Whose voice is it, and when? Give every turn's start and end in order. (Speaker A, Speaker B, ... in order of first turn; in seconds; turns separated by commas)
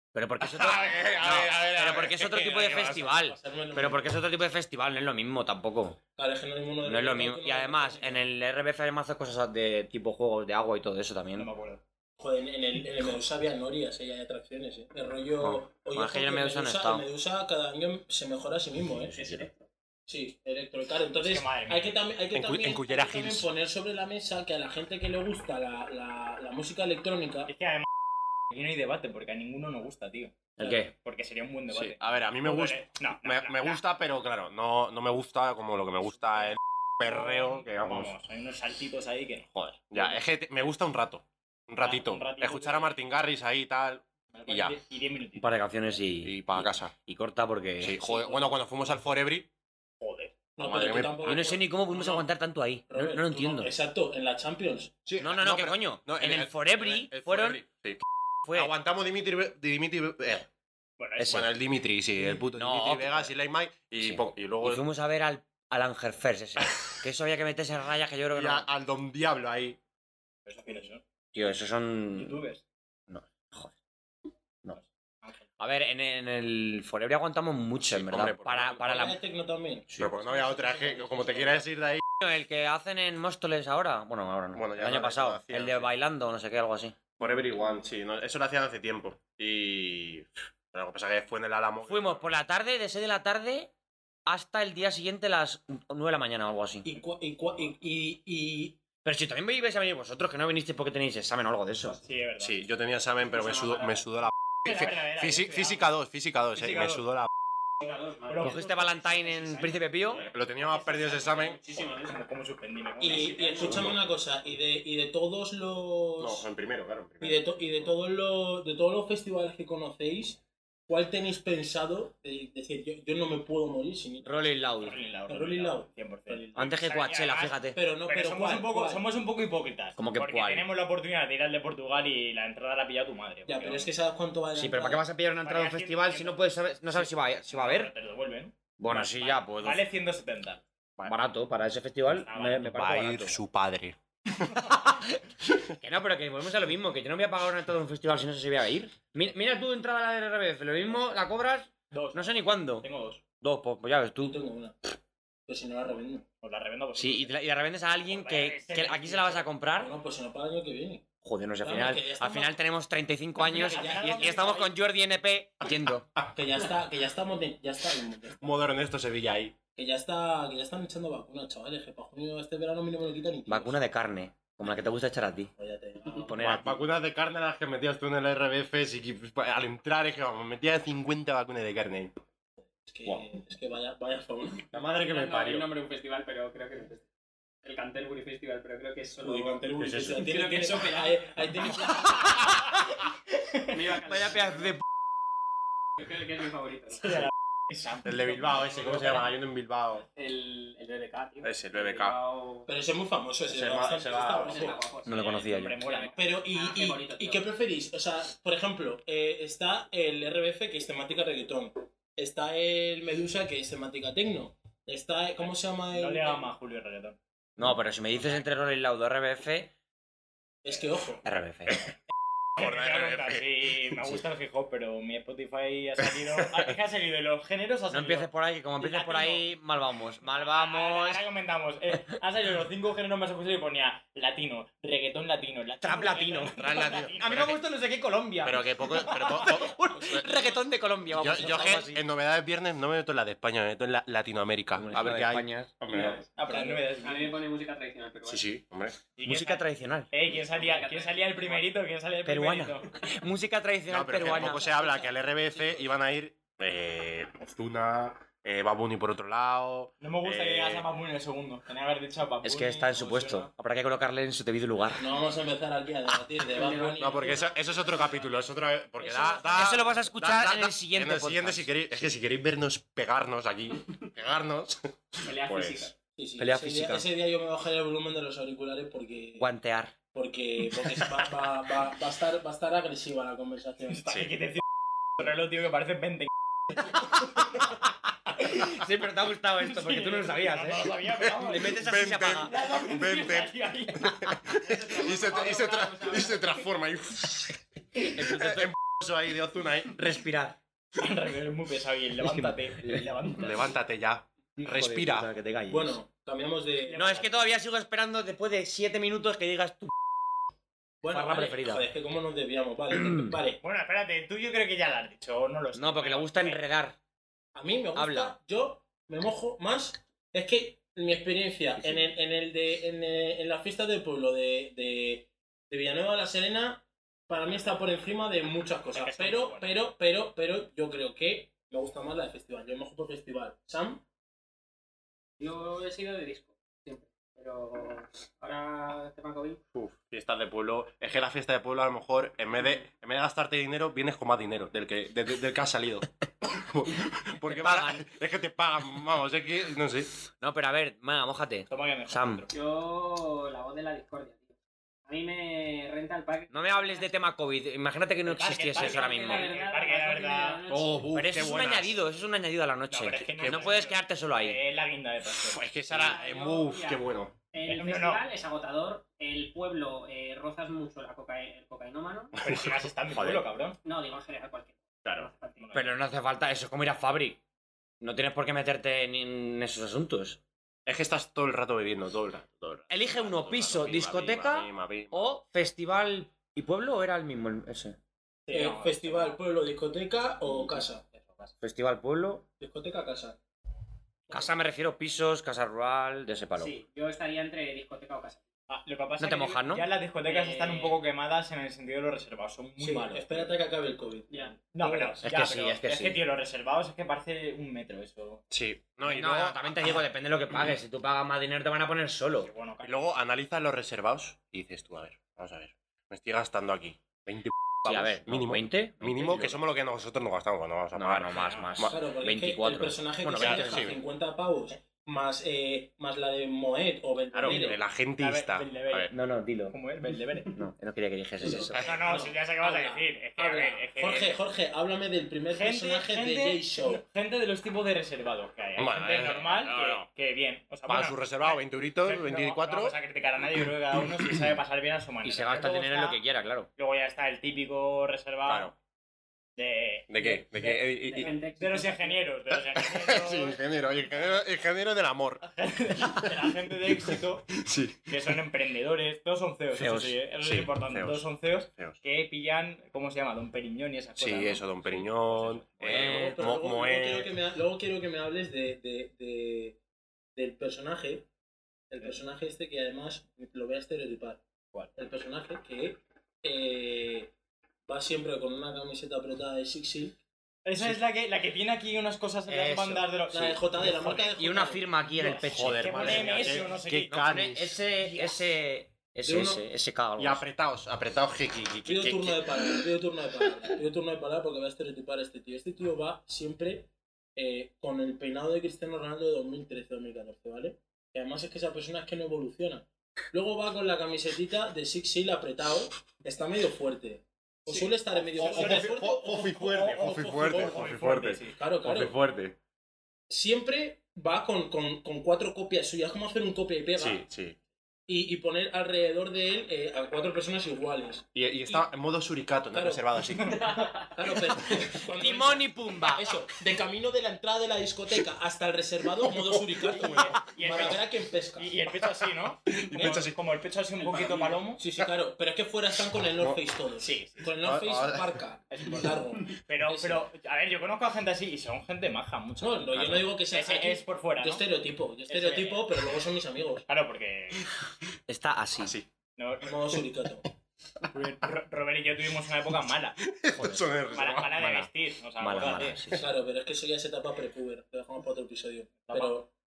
Speaker A: 0.1-6.0, Speaker B: 0.4-3.1, Speaker C: 2.7-4.2, Speaker C: 6.2-8.2, Speaker A: 6.8-11.5, Speaker D: 11.4-11.8, Speaker C: 12.2-19.2, Speaker A: 15.4-17.1, Speaker E: 19.1-19.6, Speaker C: 20.1-27.5, Speaker D: 21.2-22.0, Speaker B: 22.3-23.5, Speaker D: 27.5-27.9, Speaker D: 28.5-33.8, Speaker A: 30.6-30.9, Speaker B: 31.7-38.1, Speaker D: 37.0-40.2, Speaker B: 39.5-44.8, Speaker D: 41.8-43.0, Speaker D: 44.3-45.6, Speaker A: 45.4-48.0, Speaker B: 46.2-47.0, Speaker B: 47.8-49.5, Speaker D: 50.0-50.3, Speaker C: 50.6-52.3, Speaker B: 50.6-51.5, Speaker A: 51.2-53.7, Speaker C: 52.9-55.1, Speaker B: 55.1-58.0, Speaker A: 55.2-57.6, Speaker A: 58.5-58.7, Speaker B: 58.5-60.5, Speaker D: 61.0-61.5, Speaker B: 61.2-64.8, Speaker A: 62.5-63.3, Speaker A: 64.0-68.7, Speaker B: 68.3-69.8, Speaker D: 70.5-71.0, Speaker A: 71.3-72.4, Speaker D: 72.1-72.6, Speaker A: 73.1-73.7, Speaker D: 74.7-75.5, Speaker A: 75.6-79.2, Speaker B: 77.8-79.1, Speaker C: 78.8-79.9, Speaker B: 80.0-82.0, Speaker A: 82.2-87.1, Speaker B: 84.5-85.9, Speaker B: 87.2-92.3, Speaker A: 91.8-93.7, Speaker A: 94.3-96.9, Speaker C: 96.8-98.8, Speaker A: 99.0-102.0, Speaker D: 102.0-102.6, Speaker B: 102.4-107.3, Speaker E: 103.3-104.1, Speaker D: 104.7-105.9, Speaker D: 106.6-107.0, Speaker E: 107.8-108.7, Speaker D: 108.3-113.8, Speaker A: 108.4-110.2, Speaker B: 110.2-111.6, Speaker E: 110.9-112.2, Speaker C: 113.0-116.5, Speaker E: 113.0-113.9, Speaker B: 113.6-114.0, Speaker B: 116.2-117.6, Speaker C: 117.2-124.6, Speaker A: 124.2-125.0, Speaker D: 124.8-133.9, Speaker C: 125.3-126.8, Speaker A: 126.6-127.8, Speaker C: 127.8-129.1, Speaker A: 130.0-130.7, Speaker C: 133.5-135.1, Speaker A: 134.5-137.9, Speaker D: 135.4-140.6, Speaker A: 138.8-139.8, Speaker A: 141.1-143.4, Speaker D: 142.1-142.7, Speaker B: 142.6-144.0, Speaker D: 144.5-144.9, Speaker A: 144.7-145.1, Speaker A: 145.8-152.9, Speaker D: 151.9-153.2, Speaker A: 153.4-154.4, Speaker C: 154.2-155.0, Speaker C: 155.5-156.3, Speaker D: 156.4-157.3, Speaker A: 156.9-159.9, Speaker D: 158.1-159.5, Speaker C: 159.8-161.1, Speaker A: 161.2-166.1, Speaker C: 161.6-162.6, Speaker C: 163.4-164.7, Speaker D: 163.4-164.7, Speaker C: 166.2-168.7, Speaker B: 168.4-169.6, Speaker C: 169.8-173.8, Speaker A: 173.5-175.5, Speaker C: 175.6-176.6, Speaker A: 176.2-176.8, Speaker B: 176.4-182.2, Speaker C: 182.9-184.7, Speaker B: 184.7-185.7, Speaker E: 184.9-187.0, Speaker E: 187.6-192.0, Speaker C: 189.2-192.3, Speaker B: 189.8-190.3, Speaker E: 193.7-194.7, Speaker A: 194.1-194.8, Speaker E: 196.0-197.2, Speaker D: 197.1-199.2, Speaker B: 198.1-200.1, Speaker E: 200.2-202.7, Speaker B: 201.4-202.2, Speaker C: 202.7-204.9, Speaker B: 203.5-204.7, Speaker E: 204.1-207.5, Speaker A: 205.1-205.8, Speaker D: 205.2-206.3, Speaker C: 206.1-216.5, Speaker D: 215.9-217.2, Speaker A: 217.6-219.7, Speaker D: 218.2-218.4, Speaker C: 220.6-221.2, Speaker A: 221.2-221.8, Speaker B: 222.6-223.9, Speaker D: 222.6-229.5, Speaker A: 227.9-231.2, Speaker D: 230.2-237.7, Speaker A: 235.8-238.5, Speaker B: 236.5-237.6, Speaker D: 238.3-239.6, Speaker B: 238.4-240.5, Speaker A: 239.1-242.0, Speaker B: 241.1-246.2, Speaker A: 244.8-245.7, Speaker D: 245.9-247.4, Speaker E: 246.5-248.5, Speaker B: 248.2-249.0, Speaker D: 249.2-252.9, Speaker A: 249.2-250.1, Speaker E: 250.4-251.8, Speaker A: 252.2-254.8, Speaker B: 253.9-260.9, Speaker E: 254.7-255.0, Speaker D: 260.0-263.5, Speaker A: 262.4-265.1, Speaker C: 265.0-267.4, Speaker E: 266.5-268.3, Speaker B: 267.0-275.9, Speaker E: 269.1-269.4, Speaker A: 269.5-271.7, Speaker E: 275.2-275.9, Speaker C: 276.2-279.5, Speaker A: 276.4-277.1, Speaker A: 279.4-279.9, Speaker C: 280.1-284.1, Speaker D: 283.9-284.6, Speaker B: 284.1-284.4, Speaker D: 285.2-286.3, Speaker D: 288.4-288.7, Speaker A: 288.4-292.5, Speaker D: 289.6-294.2, Speaker B: 291.6-297.5, Speaker E: 294.6-296.6, Speaker A: 298.1-298.7, Speaker B: 298.2-300.0, Speaker A: 299.9-300.6, Speaker D: 301.0-303.7, Speaker A: 302.2-303.1, Speaker B: 303.4-305.3, Speaker A: 304.6-306.0, Speaker C: 305.7-307.3, Speaker D: 306.9-307.5, Speaker A: 306.9-309.9, Speaker C: 311.0-313.6, Speaker A: 311.1-311.8, Speaker A: 312.9-313.3, Speaker D: 313.6-316.6, Speaker A: 315.7-317.0, Speaker C: 317.6-334.0, Speaker A: 317.9-318.4, Speaker A: 321.8-322.1, Speaker D: 328.9-329.7, Speaker E: 335.4-339.6, Speaker B: 339.7-350.2, Speaker A: 347.4-348.0, Speaker A: 350.4-352.5, Speaker D: 351.7-352.5, Speaker E: 352.5-354.6, Speaker E: 355.1-357.1, Speaker A: 356.5-359.5, Speaker D: 358.3-360.6, Speaker E: 358.7-361.1, Speaker B: 360.7-362.0, Speaker A: 361.1-364.6, Speaker D: 362.9-365.6, Speaker B: 363.4-363.7, Speaker B: 365.4-367.4, Speaker E: 365.9-372.4, Speaker D: 367.6-368.2, Speaker B: 372.4-373.4, Speaker D: 372.4-373.8, Speaker E: 373.8-375.9, Speaker B: 375.1-375.3, Speaker D: 375.6-376.0, Speaker A: 375.7-377.4, Speaker A: 378.0-380.4, Speaker B: 380.9-385.3, Speaker A: 382.9-388.0, Speaker D: 388.5-389.4, Speaker C: 388.5-391.1, Speaker D: 391.1-391.5, Speaker A: 391.6-392.5, Speaker C: 392.6-393.4, Speaker C: 394.3-394.6, Speaker A: 394.3-396.8, Speaker E: 396.6-398.4, Speaker D: 398.7-403.5, Speaker A: 399.2-399.9, Speaker E: 400.2-401.0, Speaker C: 402.8-405.2, Speaker E: 404.3-404.6, Speaker D: 404.7-408.4, Speaker A: 405.2-406.2, Speaker B: 408.5-410.0, Speaker A: 409.0-412.5, Speaker D: 412.4-413.1, Speaker B: 412.8-422.0, Speaker A: 417.9-419.6, Speaker A: 420.9-424.0, Speaker D: 421.3-421.8, Speaker C: 421.9-427.8, Speaker B: 423.4-424.0, Speaker B: 427.3-429.1, Speaker D: 427.4-429.2, Speaker A: 429.1-429.8, Speaker D: 429.7-430.5, Speaker A: 430.5-432.0, Speaker C: 431.4-437.0, Speaker B: 431.6-432.0, Speaker D: 431.8-434.4, Speaker D: 435.5-446.2, Speaker B: 438.8-440.1, Speaker B: 440.9-443.0, Speaker B: 444.2-444.4, Speaker A: 445.2-446.7, Speaker D: 446.8-448.7, Speaker B: 448.5-448.7, Speaker D: 449.6-453.6, Speaker B: 450.1-451.3, Speaker E: 451.0-452.2, Speaker B: 452.7-455.4, Speaker D: 455.4-457.5, Speaker B: 456.0-456.3, Speaker B: 457.5-458.3, Speaker D: 458.1-465.8, Speaker A: 459.8-460.2, Speaker B: 460.4-462.0, Speaker B: 464.2-467.4, Speaker A: 465.8-466.4, Speaker C: 465.8-469.8, Speaker C: 470.4-471.3, Speaker C: 471.9-474.4, Speaker C: 475.0-477.3, Speaker C: 477.9-480.2, Speaker D: 480.6-484.3, Speaker A: 482.5-483.1, Speaker C: 483.3-485.4, Speaker A: 484.4-490.4, Speaker B: 485.4-487.8, Speaker D: 485.8-487.3, Speaker D: 488.0-488.4, Speaker C: 489.2-489.6, Speaker B: 490.2-492.8, Speaker C: 491.9-511.0, Speaker D: 507.7-509.1, Speaker B: 508.4-512.6, Speaker D: 509.7-511.6, Speaker C: 511.5-512.2, Speaker C: 513.3-517.2, Speaker B: 517.0-517.6, Speaker C: 518.1-521.9, Speaker B: 521.4-523.6, Speaker C: 522.7-523.0, Speaker D: 523.4-523.9, Speaker E: 523.6-524.1, Speaker C: 524.0-531.7, Speaker A: 524.7-526.3, Speaker B: 529.2-530.4, Speaker D: 529.9-534.8, Speaker B: 532.0-533.4, Speaker E: 534.0-534.5, Speaker C: 534.0-540.2, Speaker D: 537.0-537.5, Speaker B: 537.6-538.4, Speaker D: 538.7-544.6, Speaker C: 542.6-546.9, Speaker D: 545.3-546.2, Speaker D: 546.9-547.7, Speaker A: 548.3-548.9, Speaker B: 548.8-549.1, Speaker D: 549.4-550.0, Speaker C: 549.6-550.5, Speaker D: 551.0-553.2, Speaker B: 553.2-554.6, Speaker A: 553.5-553.9, Speaker D: 554.1-556.0, Speaker A: 554.5-556.3, Speaker C: 556.2-559.5, Speaker D: 559.0-559.4